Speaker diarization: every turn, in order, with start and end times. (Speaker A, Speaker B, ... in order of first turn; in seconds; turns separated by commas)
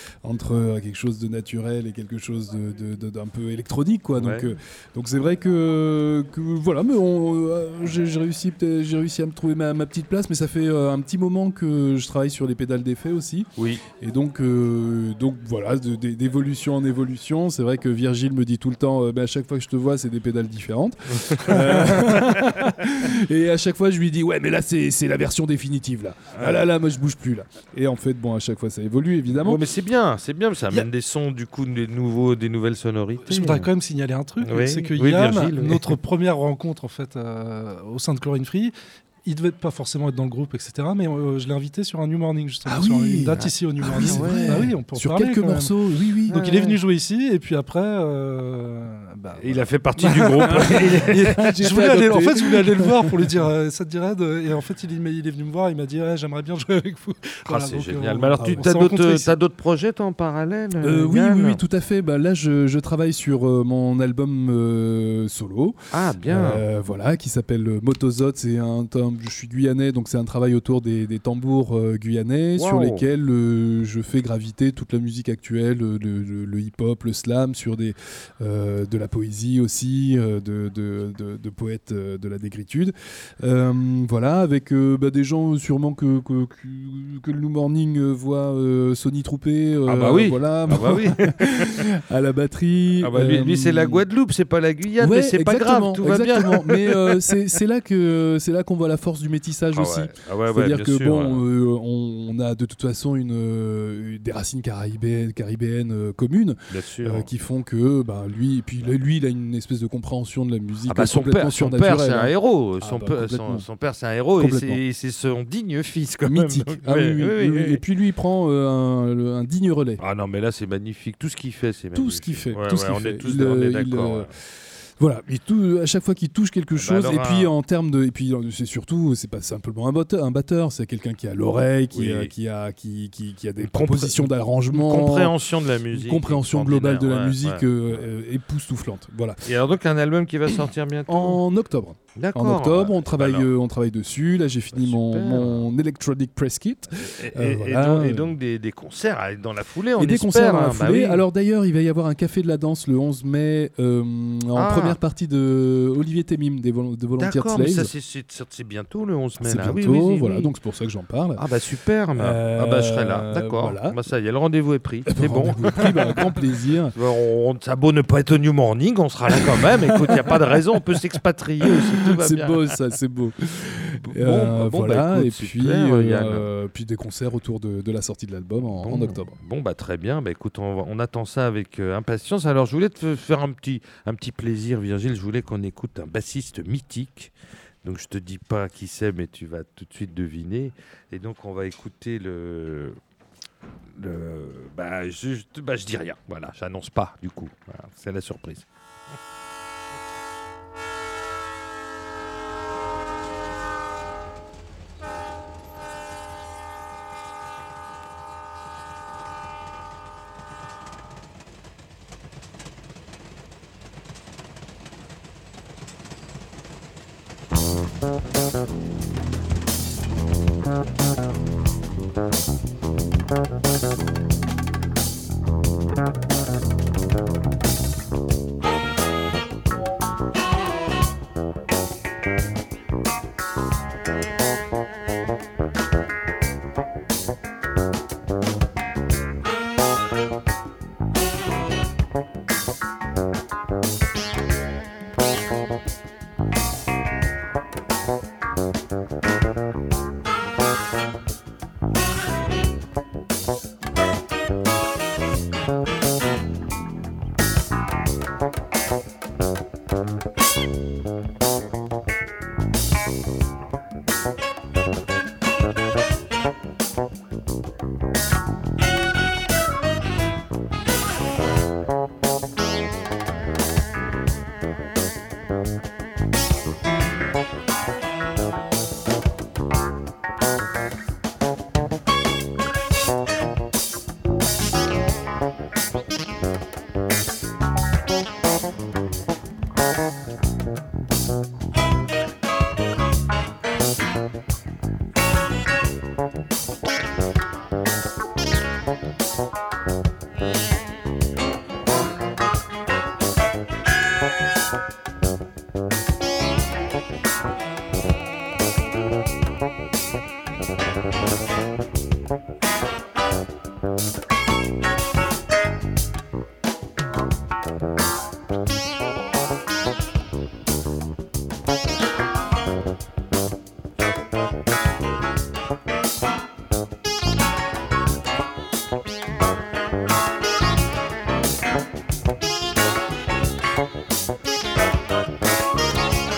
Speaker A: 0.2-29.6, Speaker B: 4.1-4.6, Speaker B: 13.6-13.8, Speaker B: 21.2-22.6, Speaker B: 26.4-26.6, Speaker B: 29.3-33.7, Speaker C: 33.2-45.7, Speaker B: 34.4-36.0, Speaker A: 42.6-46.8, Speaker B: 43.4-44.7, Speaker C: 46.3-59.3, Speaker B: 49.4-51.9, Speaker A: 50.6-53.4, Speaker B: 57.5-61.6, Speaker A: 58.3-58.7, Speaker A: 60.8-65.8, Speaker B: 65.9-66.6, Speaker A: 66.3-94.1, Speaker B: 72.5-73.1, Speaker B: 89.8-91.8, Speaker B: 93.0-97.3, Speaker A: 95.0-113.7, Speaker B: 99.7-101.5, Speaker B: 106.7-107.3, Speaker B: 110.9-117.8, Speaker A: 114.4-114.8, Speaker A: 116.2-120.0, Speaker B: 120.0-124.3, Speaker A: 121.9-124.3, Speaker A: 125.0-135.3, Speaker B: 126.8-127.5, Speaker B: 131.9-132.3, Speaker B: 133.6-138.1, Speaker A: 135.9-139.4, Speaker B: 139.4-141.4, Speaker A: 141.1-148.3, Speaker B: 142.1-143.5, Speaker B: 144.7-145.7, Speaker B: 146.9-151.2, Speaker A: 150.0-157.9, Speaker B: 154.5-155.0, Speaker B: 157.2-160.5, Speaker A: 159.4-161.4, Speaker B: 161.3-166.4, Speaker A: 162.1-164.0, Speaker A: 165.1-166.9, Speaker B: 166.9-172.8, Speaker A: 169.3-171.0, Speaker A: 171.6-179.3, Speaker B: 174.0-176.5, Speaker B: 178.8-193.0, Speaker B: 193.9-198.7